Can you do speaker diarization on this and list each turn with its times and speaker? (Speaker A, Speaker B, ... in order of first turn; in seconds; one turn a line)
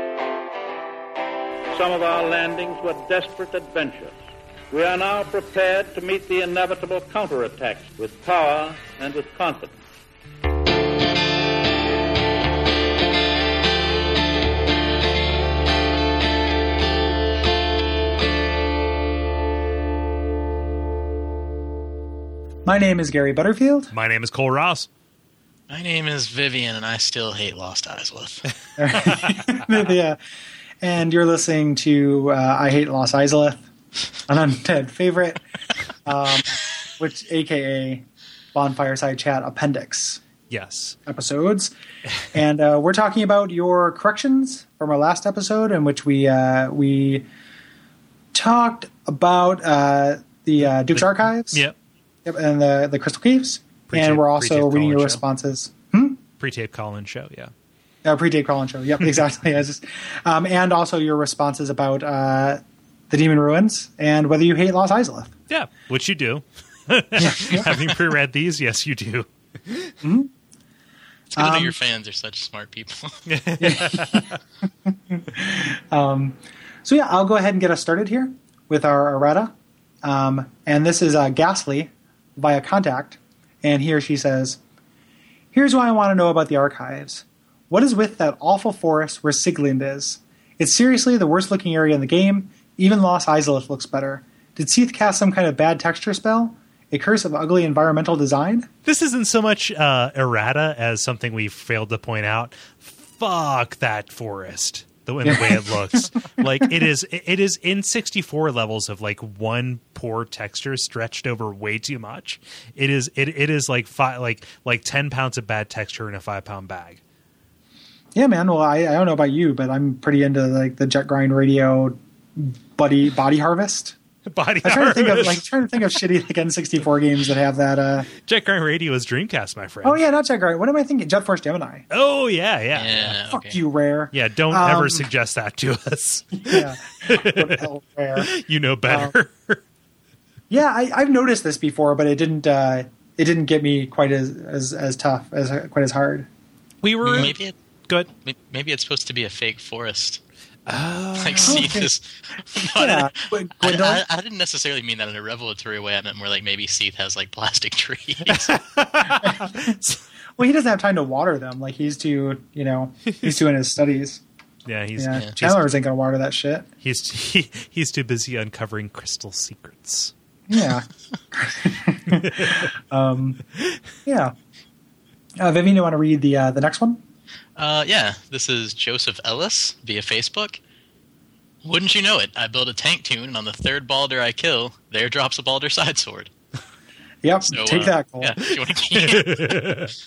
Speaker A: 1.7-4.2
Speaker A: 4.7-9.8
Speaker B: 22.6-23.9
Speaker C: 23.9-24.9
Speaker D: 25.7-28.5
Speaker B: 28.8-30.2
Speaker C: 29.1-29.3
Speaker B: 30.8-33.7
Speaker B: 34.3-35.4
Speaker B: 36.0-40.2
Speaker C: 40.5-41.0
Speaker B: 41.1-41.7
Speaker B: 42.3-47.2
Speaker B: 48.3-51.6
Speaker C: 50.9-51.8
Speaker B: 52.2-56.2
Speaker C: 53.9-55.2
Speaker C: 56.4-57.5
Speaker B: 58.0-65.3
Speaker C: 65.5-70.0
Speaker B: 67.2-67.8
Speaker B: 70.0-70.3
Speaker D: 71.3-73.2
Speaker B: 71.4-71.8
Speaker C: 73.3-74.3
Speaker B: 73.6-84.6
Speaker B: 85.5-98.7
Speaker C: 98.8-117.0
Speaker B: 105.2-106.4
Speaker B: 118.2-124.0
Speaker C: 124.3-125.5
Speaker B: 124.6-128.1
Speaker C: 128.2-130.0
Speaker B: 129.8-131.9
Speaker C: 131.9-133.2
Speaker D: 132.8-133.6
Speaker B: 133.3-135.1
Speaker C: 134.1-137.6
Speaker B: 136.4-138.3
Speaker C: 138.2-139.6
Speaker B: 138.9-139.2
Speaker B: 140.5-146.3
Speaker C: 146.8-147.4
Speaker D: 147.0-147.6
Speaker D: 148.2-150.2
Speaker C: 150.7-151.7
Speaker D: 151.2-158.6
Speaker B: 151.4-151.9
Speaker B: 152.6-154.0
Speaker C: 158.3-160.0
Speaker B: 159.2-159.8
Speaker B: 160.4-164.2
Speaker C: 164.7-165.7
Speaker B: 165.0-166.7
Speaker C: 166.8-170.1
Speaker B: 170.5-173.4
Speaker C: 172.1-172.6
Speaker B: 174.1-174.3
Speaker B: 175.4-177.0
Speaker D: 177.6-180.6
Speaker D: 181.6-186.3
Speaker B: 187.2-188.4
Speaker D: 187.5-189.8
Speaker C: 188.9-190.0